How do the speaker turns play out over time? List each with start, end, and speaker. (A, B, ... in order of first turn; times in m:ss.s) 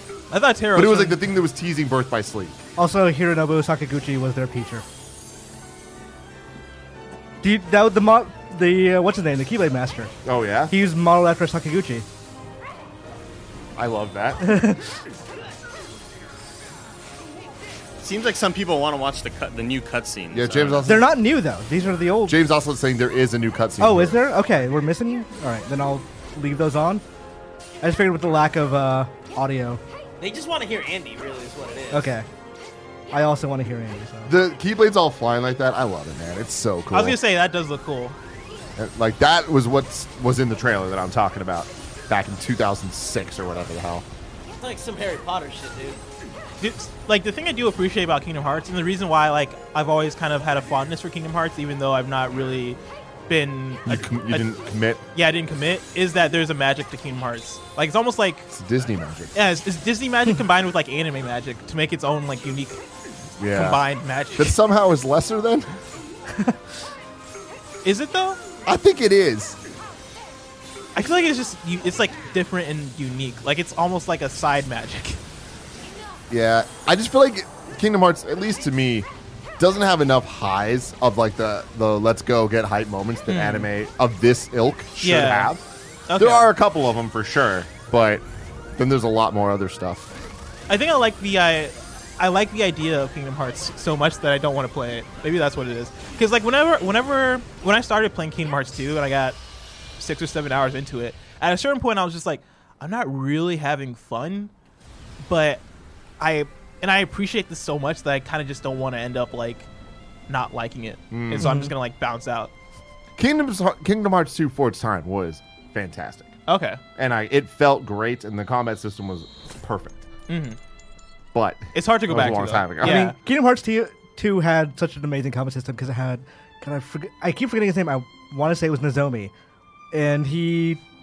0:00.3-0:01.2 A
0:00.7-0:02.6 B
0:02.8-0:04.8 C
0:07.4-0:10.1 C
0:10.2-0:10.7 B
0:10.7-0:12.1 C
0:13.8-0:14.5 B
0:14.4-0:14.8 C
0:18.0-0:21.0 D
0:20.3-0:21.2 B
0:20.8-0:22.4 C
0:22.2-0:24.2 B
0:23.8-0:27.0 C
0:27.8-0:29.8 C
0:30.2-0:32.1 E
0:31.9-0:32.3 C
0:33.1-0:34.3 C
0:34.3-0:37.2 B
0:36.9-0:38.2 A
0:38.8-0:44.0 B
0:44.5-0:46.0 E
0:46.6-0:54.5 A
0:53.9-0:55.0 B
0:55.1-0:58.5 A
0:58.5-0:59.4 B
0:59.4-1:02.8 A
1:03.4-1:05.7 B
1:03.4-1:04.6 A
1:07.8-1:08.4 A
1:08.7-1:09.6 B
1:11.0-1:15.2 A
1:16.3-1:25.6 B
1:23.3-1:23.7 A
1:25.0-1:25.5 A
1:26.1-1:26.5 A
1:26.2-1:28.2 B
1:28.8-1:30.1 B
1:30.7-1:39.4 A
1:40.0-1:44.5 A
1:45.2-1:45.6 A
1:46.2-1:49.7 A
1:50.3-1:52.5 A
1:51.1-1:51.5 B
1:51.4-1:51.7 C
1:53.2-1:56.3 B
1:56.5-1:56.8 A
1:57.0-2:00.1 B
2:00.3-2:00.6 A
2:01.3-2:03.1 B
2:01.7-2:03.2 A
2:02.8-2:09.3 C
2:09.9-2:10.8 C